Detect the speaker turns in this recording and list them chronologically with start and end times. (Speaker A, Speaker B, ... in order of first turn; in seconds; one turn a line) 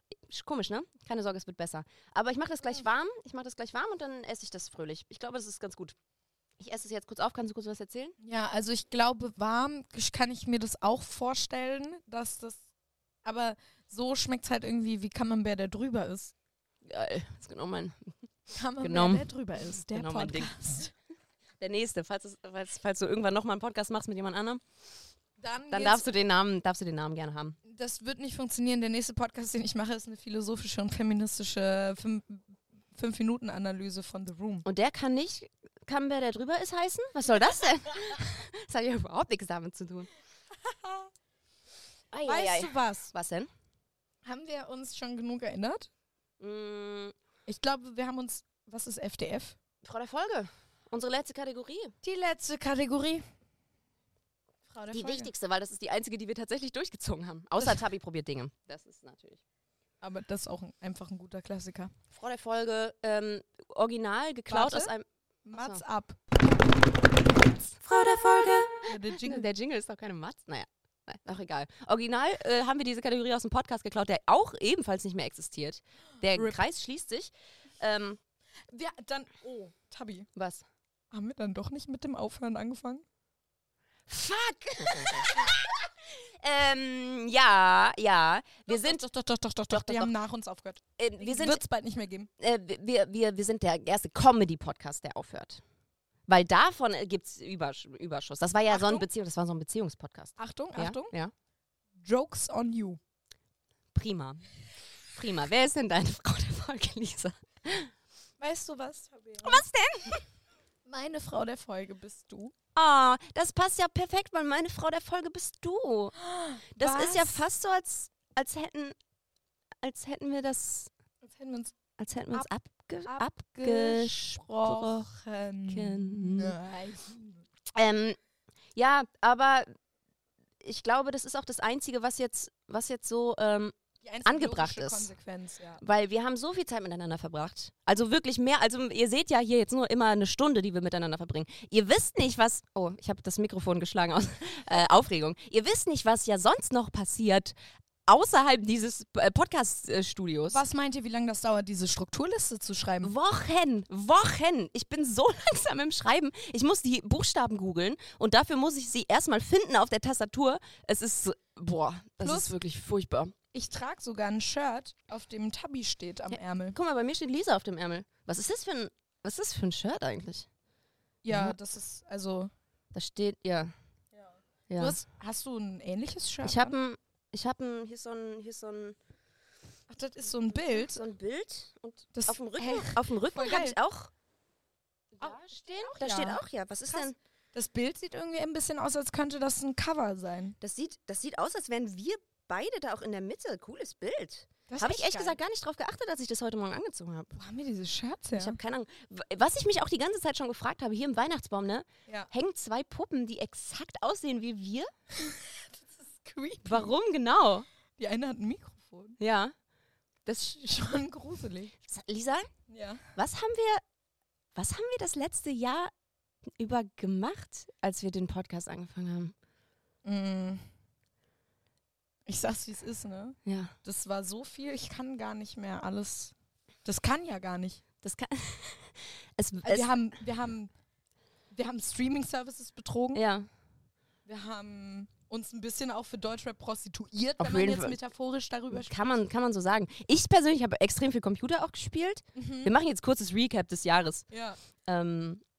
Speaker A: 0.3-6.0
Speaker A: 6.6-8.2
Speaker B: 8.2-12.6
Speaker B: 13.2-16.3
Speaker A: 16.8-18.1
Speaker B: 18.5-20.9
Speaker A: 18.8-20.6
Speaker A: 21.6-24.6
Speaker B: 25.4-26.1
Speaker A: 25.7-27.6
Speaker B: 27.7-34.7
Speaker A: 34.6-40.1
Speaker B: 40.7-41.0
Speaker A: 42.1-43.5
Speaker B: 42.2-43.1
Speaker B: 44.2-45.9
Speaker A: 46.4-47.1
Speaker B: 47.5-49.6
Speaker A: 49.8-51.9
Speaker B: 52.0-53.2
Speaker B: 54.7-55.3
Speaker A: 54.9-59.4
Speaker B: 60.0-61.9
Speaker A: 62.1-65.8
Speaker B: 64.5-64.9
Speaker B: 65.5-66.2
Speaker A: 67.7-78.2
Speaker B: 68.9-69.5
Speaker B: 76.3-76.6
Speaker B: 78.7-80.3
Speaker A: 80.4-80.7
Speaker B: 81.1-83.0
Speaker A: 84.1-89.0
Speaker B: 88.7-92.3
Speaker A: 89.7-90.1
Speaker A: 91.0-91.6
Speaker A: 92.4-95.6
Speaker A: 96.3-101.3
Speaker B: 98.7-99.1
Speaker B: 100.4-101.1
Speaker B: 102.0-103.0
Speaker A: 103.9-104.5
Speaker A: 105.1-107.9
Speaker B: 108.4-109.6
Speaker A: 109.4-110.2
Speaker B: 110.9-112.5
Speaker A: 112.8-116.1
Speaker B: 116.2-117.4
Speaker A: 116.8-119.0
Speaker A: 119.8-120.9
Speaker B: 121.2-121.7
Speaker A: 122.0-125.1
Speaker B: 123.0-127.4
Speaker A: 125.7-126.6
Speaker A: 127.7-128.2
Speaker A: 128.8-129.7
Speaker A: 130.6-135.1
Speaker B: 134.0-135.8
Speaker A: 135.8-147.6
Speaker A: 148.1-150.6
Speaker B: 150.5-153.1
Speaker A: 153.0-163.3
Speaker B: 162.2-162.6
Speaker B: 163.5-166.8
Speaker A: 166.3-170.5
Speaker B: 171.2-172.5
Speaker A: 171.3-171.6
Speaker A: 172.9-173.7
Speaker B: 174.2-176.8
Speaker A: 174.7-175.0
Speaker A: 176.4-179.0
Speaker B: 179.9-181.0
Speaker A: 180.5-184.1
Speaker B: 182.1-183.8
Speaker A: 185.2-187.2
Speaker B: 185.2-190.6
Speaker A: 190.6-197.4
Speaker B: 194.7-195.4
Speaker B: 197.3-198.6
Speaker A: 198.3-204.9
Speaker B: 205.2-206.9
Speaker A: 206.7-207.7
Speaker B: 208.0-209.2
Speaker A: 209.2-209.5
Speaker A: 210.3-210.6
Speaker B: 210.6-211.7
Speaker A: 211.8-212.5
Speaker B: 212.7-213.1
Speaker A: 213.2-213.8
Speaker A: 214.6-215.9
Speaker A: 216.6-219.3
Speaker B: 220.1-220.6
Speaker B: 222.3-227.8
Speaker A: 223.4-223.7
Speaker A: 228.0-229.9
Speaker B: 229.6-230.7
Speaker B: 231.5-233.2
Speaker A: 233.2-233.5
Speaker B: 234.3-239.0
Speaker A: 237.4-238.0
Speaker A: 238.7-244.3
Speaker B: 242.4-242.7
Speaker B: 244.3-244.6
Speaker A: 244.8-245.4